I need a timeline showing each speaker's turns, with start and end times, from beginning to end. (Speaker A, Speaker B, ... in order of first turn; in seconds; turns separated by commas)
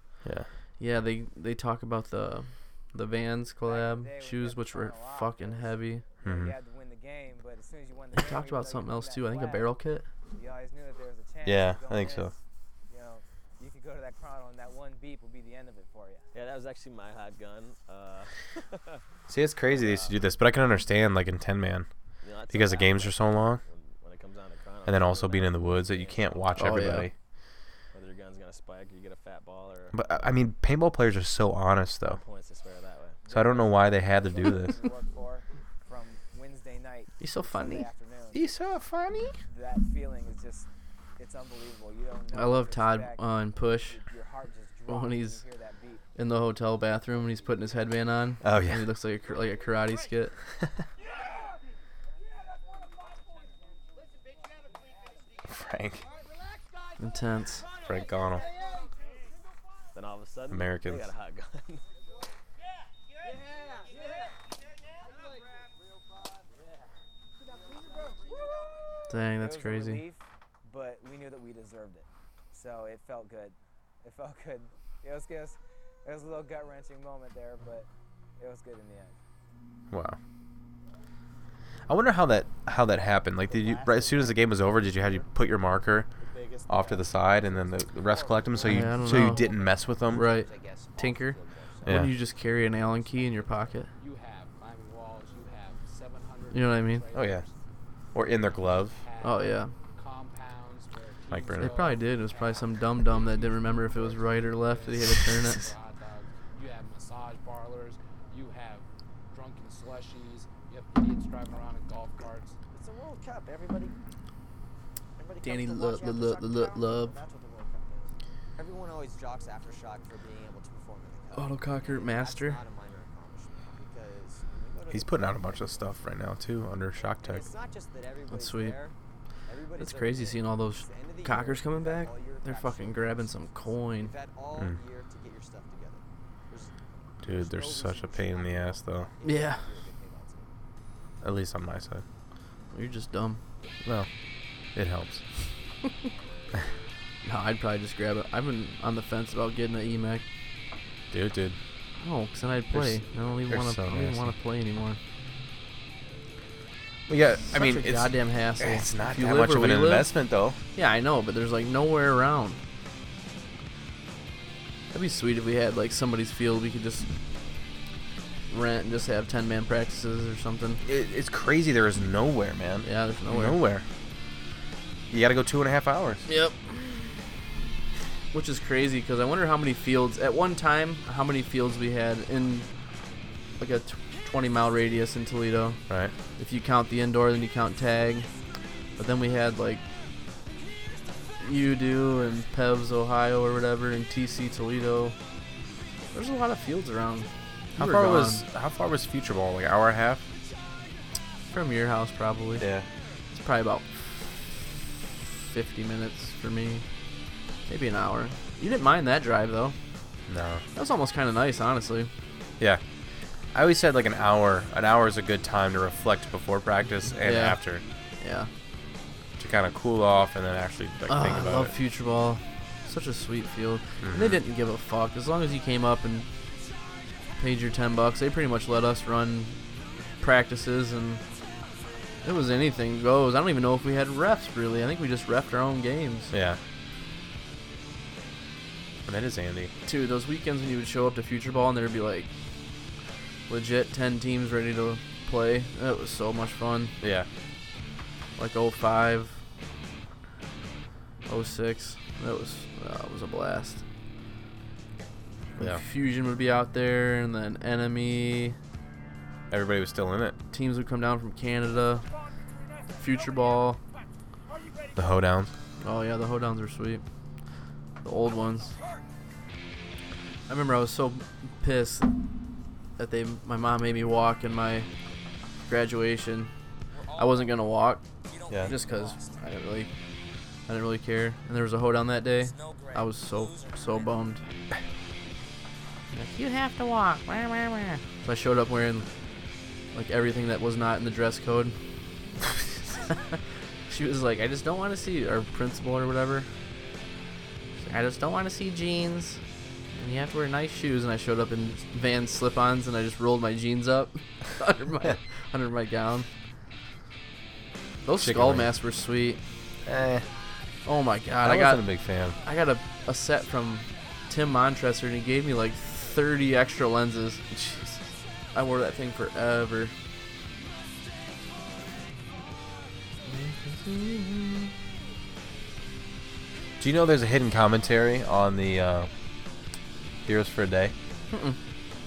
Speaker A: 0.8-6.0, Speaker B: 3.6-9.7, Speaker C: 6.2-6.5, Speaker A: 8.1-10.1, Speaker B: 10.3-12.3, Speaker C: 11.4-12.3, Speaker B: 12.9-16.3, Speaker D: 16.3-19.0, Speaker C: 19.3-21.9, Speaker D: 19.7-20.2, Speaker D: 22.2-26.8, Speaker C: 22.4-23.6, Speaker C: 24.9-27.1, Speaker A: 26.6-27.1, Speaker D: 27.9-30.0, Speaker C: 29.9-32.2, Speaker D: 32.0-33.2, Speaker B: 33.2-38.4, Speaker C: 33.3-34.8, Speaker A: 37.2-37.9, Speaker C: 38.3-39.4, Speaker B: 39.5-46.0, Speaker A: 42.3-44.0, Speaker A: 44.9-45.4, Speaker A: 46.1-50.3, Speaker C: 48.4-48.9, Speaker C: 55.4-56.0, Speaker A: 57.0-57.6, Speaker C: 57.8-58.5, Speaker D: 59.9-61.8, Speaker C: 60.5-61.1, Speaker A: 69.1-70.0, Speaker B: 69.4-79.2, Speaker C: 79.9-80.2, Speaker C: 81.9-86.1, Speaker E: 83.5-84.3, Speaker E: 86.6-86.9, Speaker C: 86.7-90.3, Speaker E: 88.0-91.9, Speaker A: 88.6-89.5, Speaker A: 90.1-93.9, Speaker C: 91.8-92.1, Speaker F: 94.0-97.5, Speaker A: 96.5-97.1, Speaker C: 97.1-97.5, Speaker C: 98.1-99.0, Speaker F: 98.6-112.5, Speaker A: 99.2-99.7, Speaker C: 101.3-101.7, Speaker A: 101.6-105.6, Speaker G: 112.7-113.9, Speaker G: 115.2-118.1, Speaker A: 115.4-117.2, Speaker E: 118.5-126.0, Speaker A: 121.3-122.6, Speaker C: 124.9-127.5, Speaker E: 127.0-128.9, Speaker A: 128.3-128.8, Speaker E: 129.5-140.5, Speaker A: 129.8-134.1, Speaker C: 137.2-139.1, Speaker A: 139.2-139.6, Speaker C: 141.2-142.0, Speaker A: 142.7-143.4, Speaker C: 143.8-144.1, Speaker C: 144.7-145.2, Speaker A: 147.2-150.2, Speaker C: 151.1-151.6, Speaker A: 152.0-155.0, Speaker C: 152.7-154.3, Speaker C: 157.1-160.6, Speaker A: 157.5-160.1, Speaker A: 160.7-162.6, Speaker A: 164.9-167.1, Speaker A: 168.5-170.8, Speaker C: 170.8-173.8, Speaker A: 172.8-173.6, Speaker C: 175.1-176.2, Speaker A: 176.3-177.1, Speaker A: 178.3-182.7, Speaker A: 183.6-185.8, Speaker C: 185.9-186.1, Speaker A: 186.4-188.3, Speaker A: 189.0-189.8, Speaker A: 191.4-195.2, Speaker A: 196.1-198.4, Speaker C: 197.8-200.2, Speaker A: 201.5-202.7, Speaker C: 202.6-202.8, Speaker A: 203.3-204.5, Speaker A: 205.2-206.8, Speaker A: 207.7-209.8, Speaker C: 210.3-210.6, Speaker A: 210.8-212.1, Speaker C: 213.5-217.8, Speaker A: 217.2-217.6, Speaker A: 218.2-218.5, Speaker C: 219.4-221.7, Speaker A: 221.1-226.3, Speaker C: 224.0-224.4, Speaker A: 227.4-229.6, Speaker A: 230.2-231.2, Speaker A: 232.2-236.3, Speaker C: 236.3-236.6, Speaker C: 239.1-239.7, Speaker A: 239.8-242.3, Speaker A: 243.5-246.9, Speaker C: 247.0-247.3, Speaker A: 248.4-249.4, Speaker A: 251.3-253.8, Speaker A: 255.6-258.6, Speaker C: 259.5-260.4, Speaker A: 260.5-262.1, Speaker A: 263.0-263.8, Speaker C: 264.9-265.5, Speaker A: 265.8-267.0, Speaker A: 268.0-268.8, Speaker A: 270.5-272.1, Speaker A: 273.0-274.9, Speaker A: 275.6-276.5, Speaker E: 276.9-279.4, Speaker A: 277.1-278.0, Speaker A: 278.6-279.9, Speaker A: 280.7-284.4, Speaker E: 282.4-284.1, Speaker A: 286.1-289.1, Speaker A: 289.9-291.8, Speaker A: 293.1-293.4, Speaker A: 293.9-296.5, Speaker A: 297.8-299.4, Speaker A: 299.9-306.3, Speaker A: 308.0-309.4, Speaker C: 308.2-308.7, Speaker C: 309.8-310.2, Speaker A: 310.8-311.9, Speaker C: 311.4-312.4, Speaker A: 312.4-318.0, Speaker A: 318.5-319.9, Speaker A: 323.3-324.7, Speaker C: 326.8-329.1, Speaker C: 330.2-330.9, Speaker A: 331.3-331.6